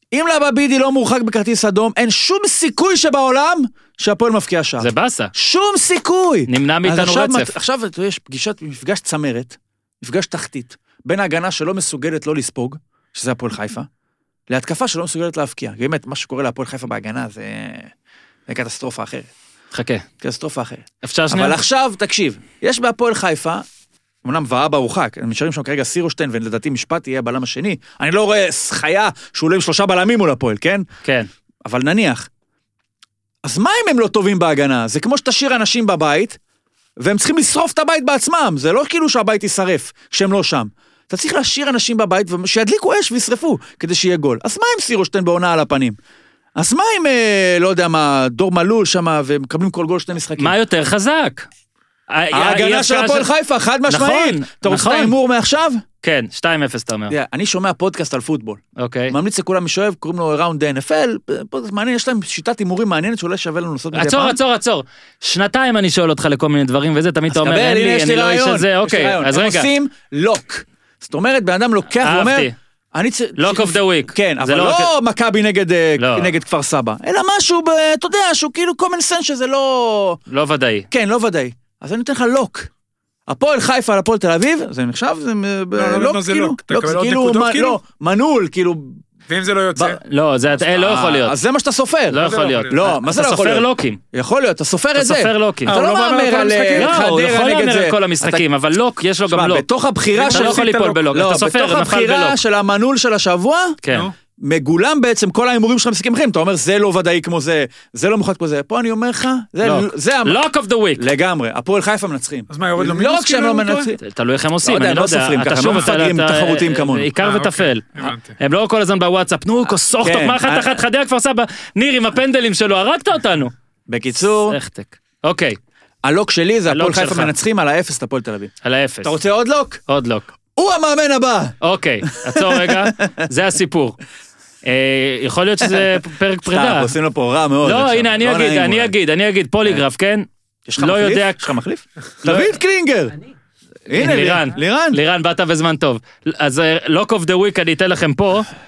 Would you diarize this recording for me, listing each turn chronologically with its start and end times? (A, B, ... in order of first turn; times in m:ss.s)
0:00.1-0:13.9 A
0:04.8-0:05.3 B
0:06.5-0:07.6 B
0:14.5-0:17.9 A
0:18.5-0:19.3 A
0:19.7-0:20.0 B
0:20.2-0:23.6 A
0:21.0-0:21.6 B
0:24.2-0:30.9 A
0:31.0-0:31.3 B
0:31.6-0:32.3 A
0:33.4-0:36.4 A
0:37.0-0:46.0 A
0:46.6-0:50.6 A
0:50.4-0:51.5 B
0:52.1-0:53.3 B
0:52.3-0:55.8 A
0:53.9-0:55.2 B
0:56.0-0:57.2 B
0:57.1-1:04.4 A
0:58.8-0:59.2 B
1:03.9-1:09.7 B
1:07.3-1:20.2 A
1:12.0-1:12.5 B
1:13.4-1:14.9 B
1:16.0-1:16.3 B
1:20.3-1:20.9 B
1:20.9-1:22.7 A
1:23.3-1:29.0 A
1:25.8-1:27.8 C
1:29.3-1:30.0 C
1:30.0-1:31.4 B
1:30.6-1:38.4 A
1:32.1-1:34.0 B
1:32.2-1:32.8 C
1:35.0-1:35.8 B
1:35.7-1:37.0 C
1:36.8-1:39.6 B
1:39.3-1:43.8 A
1:40.1-1:41.0 C
1:40.3-1:42.4 B
1:43.8-1:44.1 B
1:44.4-1:50.4 A
1:49.6-1:51.1 B
1:51.0-1:54.0 A
1:52.5-1:53.9 C
1:54.0-2:03.5 B
1:54.6-1:57.1 A
1:57.2-1:58.4 C
2:00.0-2:00.8 A
2:03.9-2:04.6 A
2:04.5-2:05.6 B
2:06.0-2:08.5 A
2:06.7-2:07.3 B
2:08.6-2:09.1 B
2:09.0-2:09.8 A
2:09.9-2:10.3 B
2:10.6-2:13.3 A
2:11.6-2:14.0 B
2:14.6-2:16.9 B
2:15.6-2:18.9 A
2:17.6-2:20.3 B
2:20.7-2:23.2 A
2:20.8-2:21.5 B
2:22.2-2:22.5 B
2:23.9-2:25.0 A
2:23.9-2:28.5 B